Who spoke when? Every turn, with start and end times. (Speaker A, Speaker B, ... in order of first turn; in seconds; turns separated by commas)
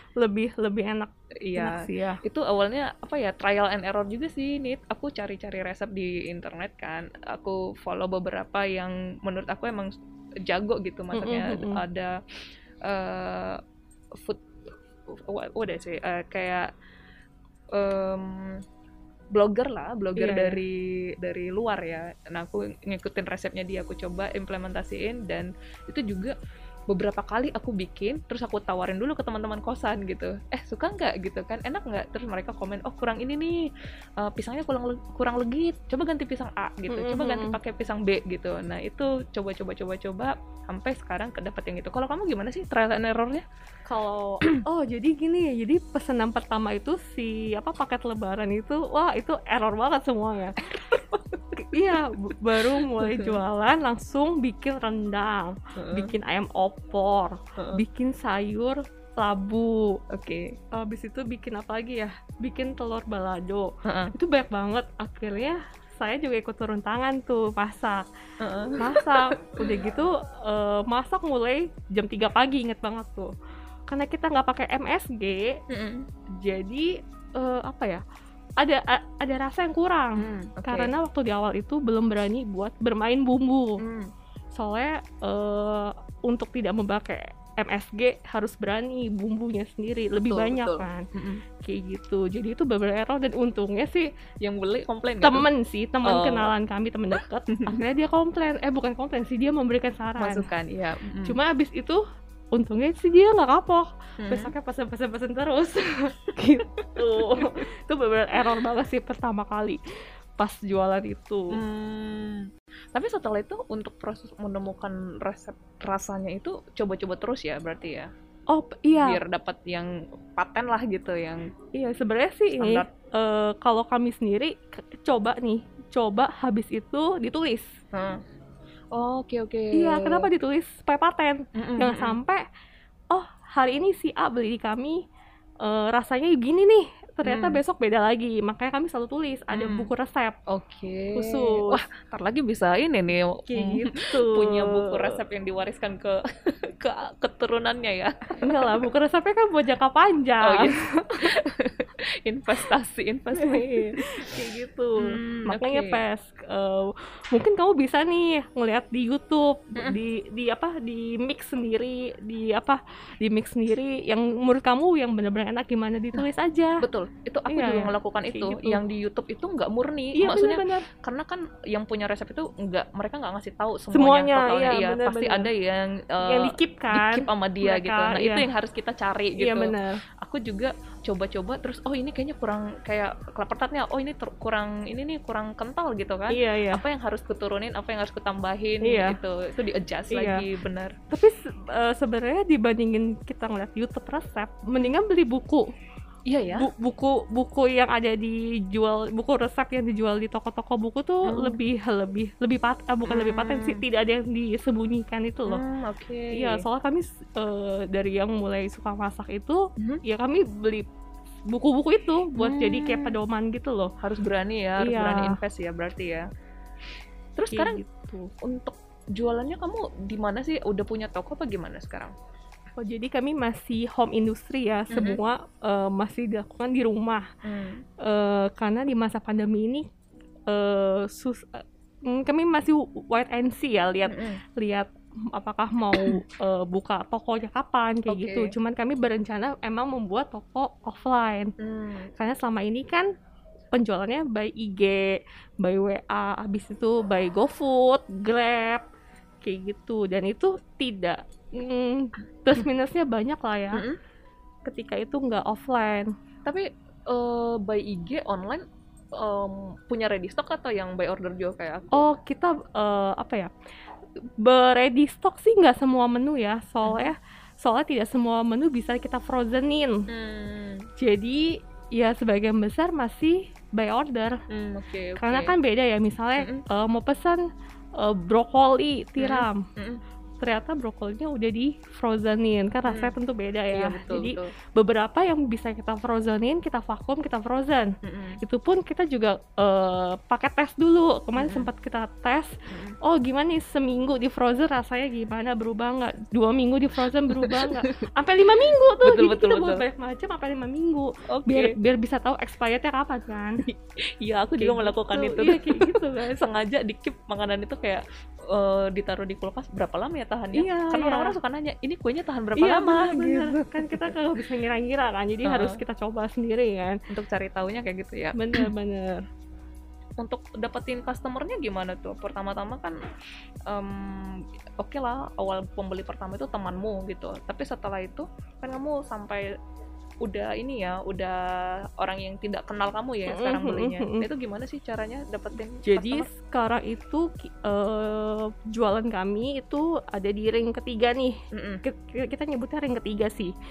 Speaker A: 0.2-2.2, Speaker B: 1.4-12.2, Speaker A: 11.1-11.8, Speaker B: 12.8-13.6, Speaker B: 14.2-16.7, Speaker B: 17.7-18.6, Speaker B: 19.3-26.3, Speaker A: 20.1-20.6, Speaker B: 26.9-33.6, Speaker B: 34.2-43.4, Speaker A: 36.9-37.6, Speaker A: 43.9-50.6, Speaker B: 50.8-52.4, Speaker A: 51.5-59.8, Speaker B: 52.9-53.4, Speaker B: 55.8-56.1, Speaker B: 60.1-60.5, Speaker A: 60.7-68.0, Speaker B: 63.8-64.1, Speaker B: 68.4-69.9, Speaker A: 68.8-73.3, Speaker A: 73.9-75.6, Speaker B: 75.7-76.1, Speaker A: 76.3-78.0, Speaker A: 78.6-83.8, Speaker B: 80.2-80.9, Speaker B: 83.8-84.1, Speaker A: 84.5-91.0, Speaker B: 90.3-91.4, Speaker A: 91.6-94.1, Speaker B: 94.4-95.5, Speaker A: 95.2-100.5, Speaker B: 96.0-96.5, Speaker B: 100.2-101.4, Speaker A: 101.2-102.0, Speaker A: 102.5-109.8, Speaker B: 104.2-104.5, Speaker B: 107.3-107.6, Speaker A: 110.4-111.6, Speaker B: 111.5-118.1, Speaker A: 118.5-119.2, Speaker B: 118.9-121.5, Speaker A: 121.7-127.7, Speaker B: 122.5-122.9, Speaker B: 127.9-128.2, Speaker B: 128.9-130.3, Speaker A: 129.7-132.4, Speaker B: 131.5-132.2, Speaker A: 133.1-135.0, Speaker A: 135.6-140.4, Speaker B: 137.2-137.6, Speaker B: 139.5-139.9, Speaker B: 140.5-148.7, Speaker A: 141.1-141.8, Speaker A: 143.5-145.1, Speaker A: 148.4-151.3, Speaker B: 150.4-154.3, Speaker A: 153.4-166.8, Speaker B: 155.0-156.0, Speaker B: 166.8-190.9, Speaker A: 167.5-168.8, Speaker A: 170.1-170.9, Speaker A: 173.9-175.5, Speaker A: 176.2-178.4, Speaker A: 179.4-180.0, Speaker A: 186.3-186.8, Speaker A: 188.8-189.2, Speaker A: 190.1-190.4, Speaker A: 191.1-195.7, Speaker B: 196.3-196.7, Speaker A: 196.6-205.6, Speaker B: 201.2-201.6, Speaker B: 203.1-203.8, Speaker B: 205.5-206.6, Speaker A: 206.3-210.9, Speaker A: 211.5-213.9, Speaker B: 212.3-213.1, Speaker B: 214.0-216.2, Speaker A: 214.8-215.4, Speaker B: 217.3-217.8, Speaker A: 217.5-218.3, Speaker B: 218.4-222.1, Speaker A: 222.8-227.2, Speaker B: 224.9-225.2, Speaker B: 227.4-227.8, Speaker A: 228.0-229.8, Speaker A: 230.5-241.5, Speaker B: 234.1-234.4, Speaker B: 238.1-238.5, Speaker B: 241.6-242.1, Speaker A: 242.2-243.1, Speaker A: 243.7-248.8, Speaker A: 249.4-253.8, Speaker B: 253.7-254.0, Speaker A: 254.6-256.1, Speaker B: 256.4-258.6, Speaker B: 259.1-262.1, Speaker A: 261.9-263.5, Speaker A: 264.4-270.1, Speaker B: 266.8-267.1, Speaker B: 270.1-270.9, Speaker A: 271.0-274.4, Speaker B: 274.5-275.6, Speaker A: 275.2-277.4, Speaker B: 276.4-276.6, Speaker A: 277.9-279.7, Speaker B: 279.2-280.0, Speaker A: 280.4-287.9, Speaker B: 282.9-283.1, Speaker B: 283.7-284.5, Speaker B: 288.0-288.4, Speaker A: 288.4-303.6, Speaker B: 291.4-291.7, Speaker B: 292.7-292.9, Speaker B: 297.3-297.9, Speaker B: 298.6-299.8, Speaker B: 301.3-301.7, Speaker B: 303.6-314.1, Speaker A: 304.6-306.5, Speaker A: 310.5-311.4, Speaker A: 312.6-317.0, Speaker B: 315.4-315.8, Speaker B: 317.1-318.7, Speaker A: 318.3-319.2, Speaker B: 320.2-323.0, Speaker B: 323.7-329.5, Speaker B: 330.2-336.3, Speaker A: 333.3-334.3, Speaker A: 335.8-343.5, Speaker B: 341.5-341.8